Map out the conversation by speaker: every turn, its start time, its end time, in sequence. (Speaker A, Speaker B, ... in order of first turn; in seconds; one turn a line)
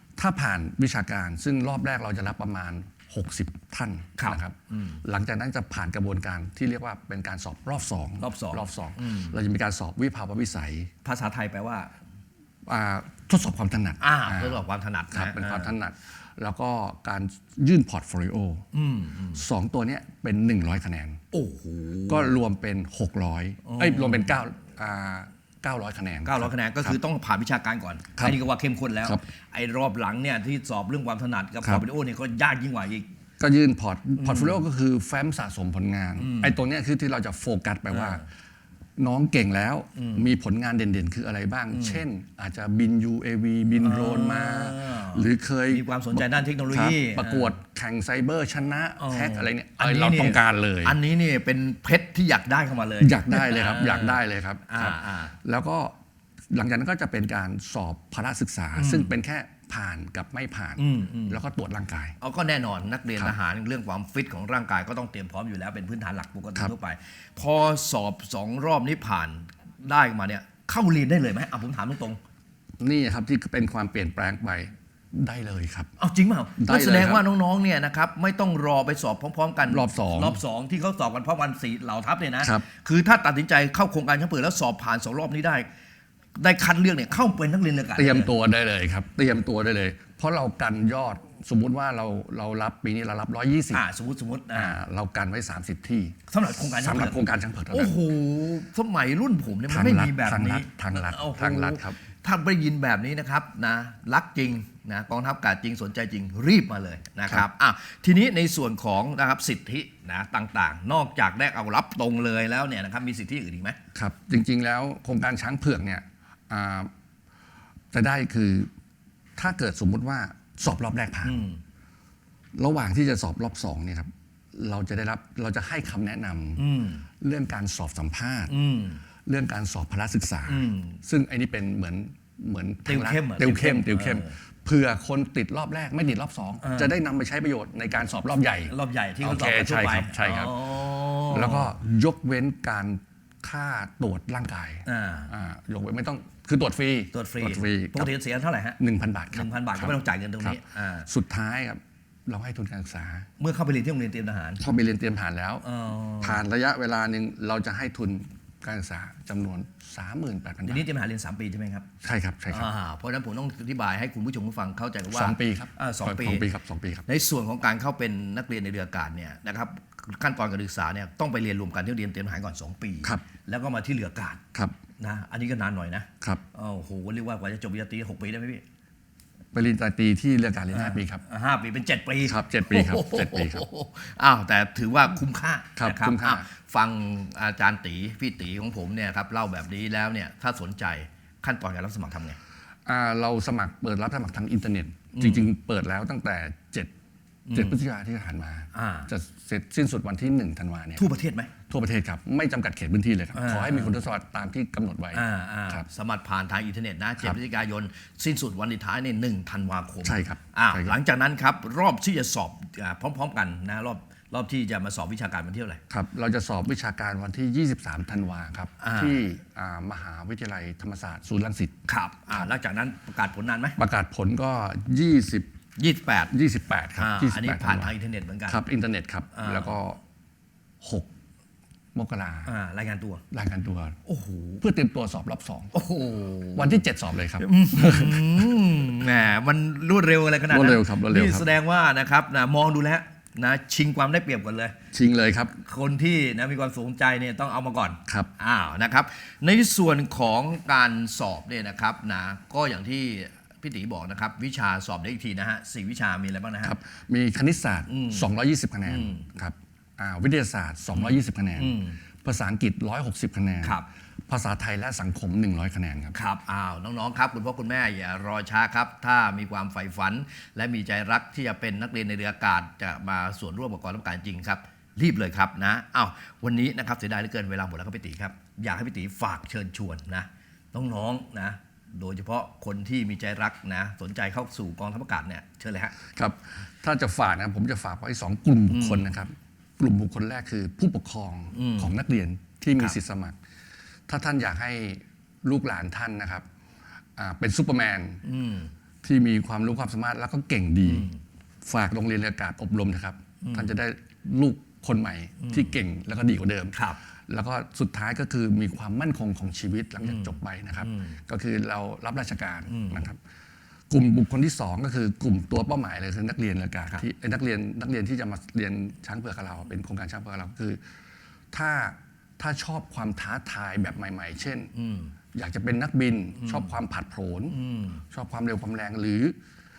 Speaker A: 0.2-10.9
Speaker B: 4.2-5.0
Speaker B: 8.2-9.4
Speaker B: 11.0-11.9
Speaker A: 12.7-18.6
Speaker B: 14.0-15.8
Speaker B: 18.7-19.4
Speaker A: 19.3-21.2
Speaker B: 21.3-22.3
Speaker A: 22.1-27.0
Speaker B: 23.6-24.4
Speaker B: 26.2-33.1
Speaker A: 33.4-38.2
Speaker B: 34.2-34.6
Speaker B: 36.2-36.5
Speaker B: 37.9-38.2
Speaker A: 39.0-51.0
Speaker B: 39.9-40.3
Speaker B: 41.7-42.0
Speaker B: 43.8-47.5
Speaker B: 49.0-55.3
Speaker A: 53.0-55.9
Speaker A: 56.5-62.2
Speaker B: 58.8-59.1
Speaker B: 60.8-61.4
Speaker B: 62.2-72.2
Speaker A: 72.8-75.9
Speaker B: 76.0-85.7
Speaker A: 76.6-77.2
Speaker A: 79.7-80.4
Speaker A: 82.4-82.7
Speaker B: 86.4-88.3
Speaker A: 88.0-93.8
Speaker B: 93.7-94.8
Speaker A: 94.5-96.2
Speaker B: 96.3-113.8
Speaker A: 96.7-98.0
Speaker A: 99.7-102.0
Speaker A: 113.9-116.9
Speaker A: 117.9-118.7
Speaker A: 119.4-121.4
Speaker B: 121.2-121.6
Speaker A: 122.5-126.6
Speaker B: 126.6-127.0
Speaker A: 127.2-128.5
Speaker B: 128.5-129.0
Speaker A: 129.2-148.1
Speaker B: 130.5-131.0
Speaker B: 132.8-134.4
Speaker B: 136.6-136.9
Speaker B: 138.7-141.7
Speaker B: 144.8-145.3
Speaker B: 147.1-148.8
Speaker A: 148.8-153.2
Speaker B: 149.3-151.1
Speaker B: 153.4-154.6
Speaker A: 154.6-155.6
Speaker B: 155.6-156.4
Speaker A: 156.2-160.8
Speaker B: 160.6-161.9
Speaker A: 162.0-162.7
Speaker B: 162.5-166.5
Speaker A: 165.1-167.1
Speaker B: 167.1-174.4
Speaker B: 175.0-178.6
Speaker A: 179.5-181.2
Speaker B: 180.7-192.4
Speaker A: 182.2-183.7
Speaker A: 185.8-186.5
Speaker A: 192.8-196.9
Speaker B: 195.1-195.5
Speaker B: 197.5-197.8
Speaker A: 197.5-201.1
Speaker B: 198.7-199.1
Speaker B: 201.0-201.5
Speaker A: 201.7-205.8
Speaker B: 203.3-203.9
Speaker B: 205.1-215.8
Speaker A: 210.0-210.9
Speaker A: 215.9-222.5
Speaker B: 218.8-219.2
Speaker B: 221.9-223.8
Speaker A: 223.8-225.5
Speaker B: 225.8-226.3
Speaker A: 226.3-227.9
Speaker B: 227.0-228.6
Speaker A: 228.5-230.0
Speaker B: 229.3-229.8
Speaker A: 230.8-231.1
Speaker A: 231.9-232.5
Speaker B: 232.4-233.2
Speaker A: 233.3-234.0
Speaker B: 234.1-234.6
Speaker A: 234.6-235.7
Speaker B: 235.7-236.8
Speaker A: 236.6-238.6
Speaker B: 237.4-244.7
Speaker A: 240.5-241.5
Speaker A: 244.9-245.6
Speaker B: 245.6-256.8
Speaker A: 256.6-266.1
Speaker B: 257.9-258.3
Speaker B: 258.9-259.2
Speaker B: 260.9-261.9
Speaker B: 266.1-285.9
Speaker A: 286.1-293.4
Speaker B: 288.7-289.0
Speaker B: 291.5-291.9
Speaker A: 294.1-296.4
Speaker A: 297.2-298.2
Speaker B: 298.2-298.7
Speaker A: 299.0-301.1
Speaker B: 300.9-301.2
Speaker A: 301.6-306.8
Speaker B: 303.4-303.7
Speaker B: 305.4-305.8
Speaker A: 307.3-313.2
Speaker B: 310.0-311.2
Speaker B: 312.7-313.1
Speaker A: 313.9-320.8
Speaker A: 321.5-324.7
Speaker B: 324.7-325.1
Speaker A: 325.3-327.6
Speaker B: 326.4-326.7
Speaker B: 327.5-328.0
Speaker A: 328.1-329.4